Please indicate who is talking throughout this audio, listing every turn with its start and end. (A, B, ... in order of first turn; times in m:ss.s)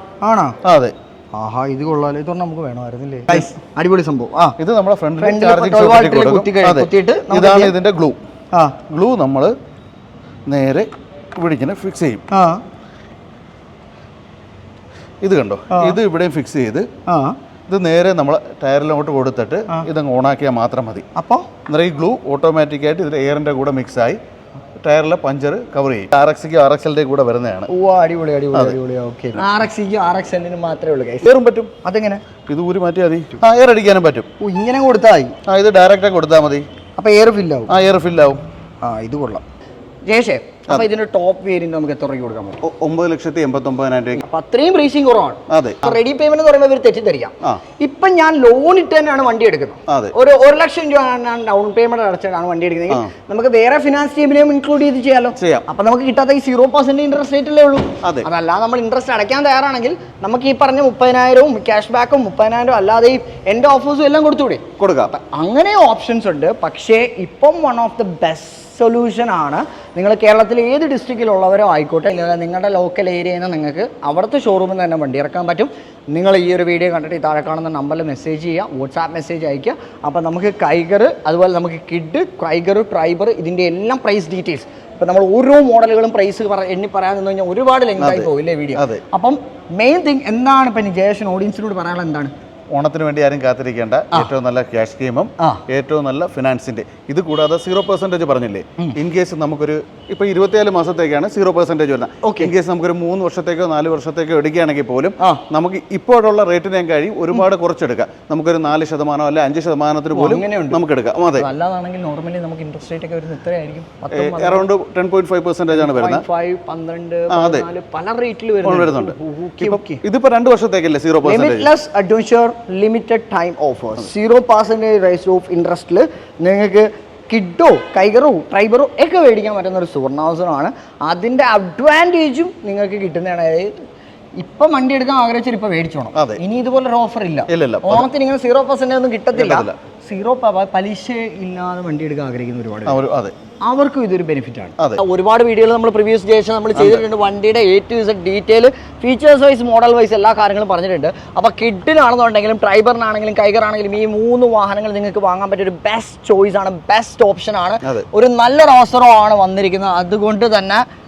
0:00.2-0:00.6 A
0:00.6-0:00.9 B
0:01.3-0:04.6 A
0:04.6-0:08.2 B
0:05.2-0:07.7 A
0:08.5-0:08.8 A
0:08.8-0:09.5 B
0:10.5-0:12.2 B
0:12.3-0:12.6 A
0:15.2-0:16.9 B
0:15.7-0:16.0 A
0:17.1-0:17.4 A
0:17.7-0:21.0 B
0:21.2-0:21.5 A
0:21.7-0:24.2 B
0:24.8-0:27.7 B
0:27.7-0:31.3 A
0:31.2-0:31.7 B
0:31.8-0:32.2 A
0:32.5-0:34.3 B
0:34.4-0:35.4 A
0:35.5-0:36.6 B
0:37.0-0:37.7 A
0:37.7-0:38.4 B
0:38.8-0:39.4 A
0:40.0-0:42.6 A
0:42.6-0:44.2 B
0:44.1-1:32.3 A
0:45.5-0:46.0 B
0:49.9-0:50.1 B
0:55.4-0:55.6 B
1:04.8-1:05.1 B
1:28.0-1:29.0 B
1:32.7-1:51.5 B
1:42.2-1:42.5 A
1:50.1-1:50.8 A
1:51.4-1:54.7 A
1:54.1-1:56.2 B
1:55.7-2:00.0 A
1:57.3-1:57.6 B
1:58.6-2:01.7 B
2:01.2-2:13.7 A
2:14.4-2:23.0 A
2:16.1-2:16.4 B
2:17.5-2:18.1 B
2:19.3-2:19.8 B
2:22.8-2:23.3 B
2:23.6-2:40.8 A
2:26.7-2:27.0 B